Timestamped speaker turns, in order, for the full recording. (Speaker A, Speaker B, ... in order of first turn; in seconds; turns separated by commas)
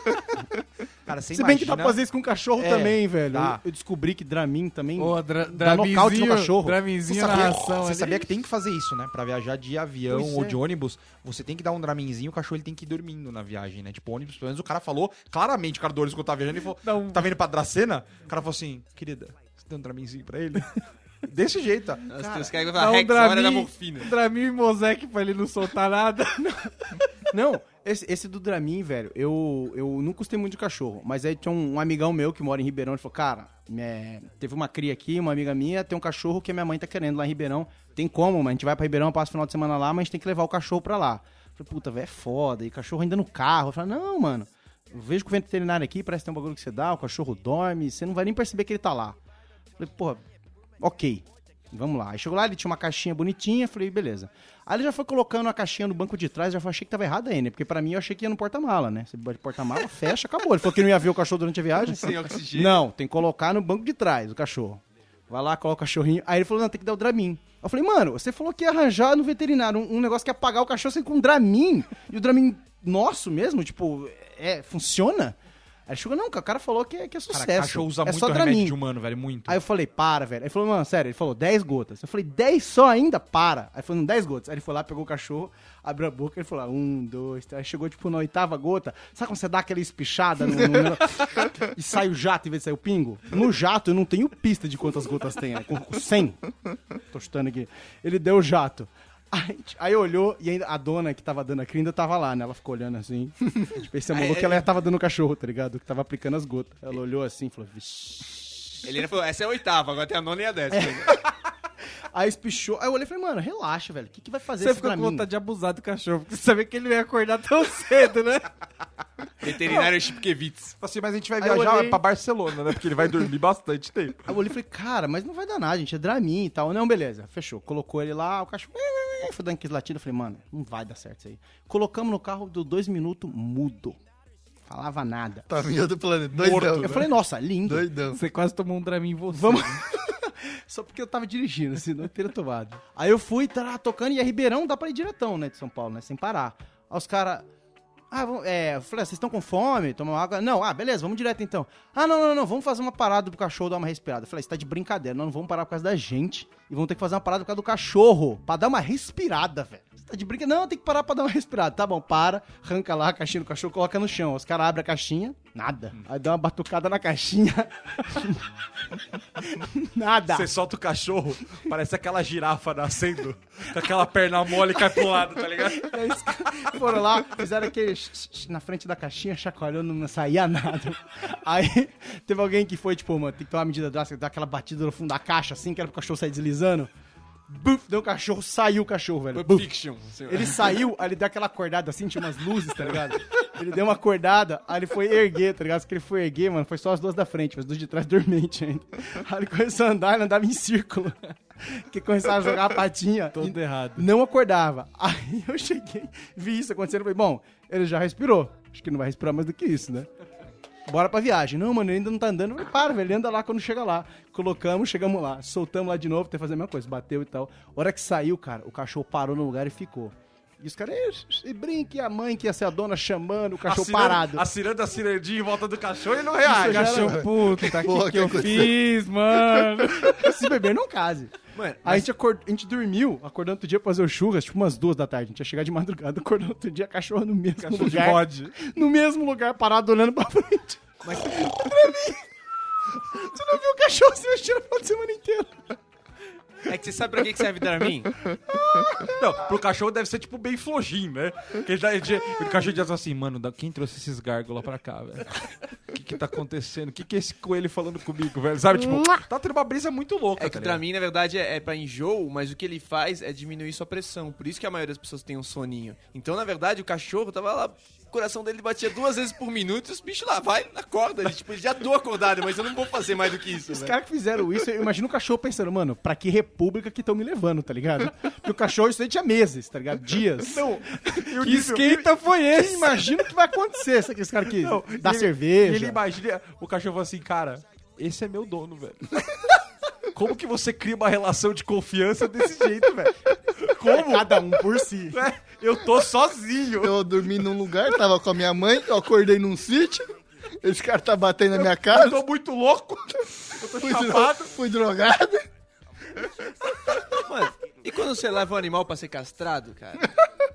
Speaker A: 1.1-2.0, Speaker B: 1.3-6.9, Speaker A: 2.6-3.6, Speaker C: 5.0-8.3, Speaker A: 7.0-22.2, Speaker B: 10.1-10.6, Speaker C: 16.8-17.3, Speaker D: 22.1-24.1, Speaker C: 22.6-26.6, Speaker B: 26.4-26.7, Speaker B: 27.3-49.2, Speaker B: 49.8-50.2, Speaker B: 50.8-75.4, Speaker D: 61.8-62.8, Speaker B: 75.9-78.8, Speaker A: 77.3-79.6, Speaker B: 79.5-96.4, Speaker B: 97.1-108.7, Speaker D: 104.1-104.7, Speaker D: 108.8-111.2, Speaker B: 110.7-111.2, Speaker B: 112.1-115.2, Speaker C: 114.6-118.5, Speaker D: 119.4-120.7, Speaker A: 120.8-124.2, Speaker B: 121.4-122.0, Speaker B: 124.3-134.0, Speaker B: 134.7-135.5, Speaker E: 135.5-137.1, Speaker A: 136.3-137.1, Speaker B: 136.7-137.9, Speaker E: 137.6-138.2, Speaker C: 138.1-139.8, Speaker B: 139.3-147.5, Speaker B: 148.1-168.5, Speaker B: 169.4-170.5, Speaker A: 170.3-176.7, Speaker B: 175.7-186.9, Speaker B: 187.5-189.8, Speaker D: 189.3-190.8, Speaker B: 190.3-210.1, Speaker C: 203.3-204.1, Speaker B: 210.9-224.4, Speaker A: 223.6-227.2, Speaker B: 226.4-227.3, Speaker C: 226.6-230.2, Speaker E: 227.2-228.9, Speaker B: 230.0-242.3, Speaker D: 231.5-232.1, Speaker C: 237.6-238.5, Speaker B: 242.9-245.8, Speaker D: 246.7-248.2, Speaker B: 248.7-249.1, Speaker A: 249.1-260.8, Speaker D: 260.4-273.9, Speaker B: 273.7-281.2, Speaker A: 280.5-282.1, Speaker C: 281.4-283.0, Speaker B: 282.4-286.0, Speaker A: 284.5-289.6, Speaker A: 290.1-294.5, Speaker B: 293.8-295.2, Speaker A: 295.1-297.0, Speaker E: 296.8-300.1, Speaker E: 300.6-302.2, Speaker A: 301.8-304.5, Speaker E: 303.8-305.4, Speaker D: 307.1-310.1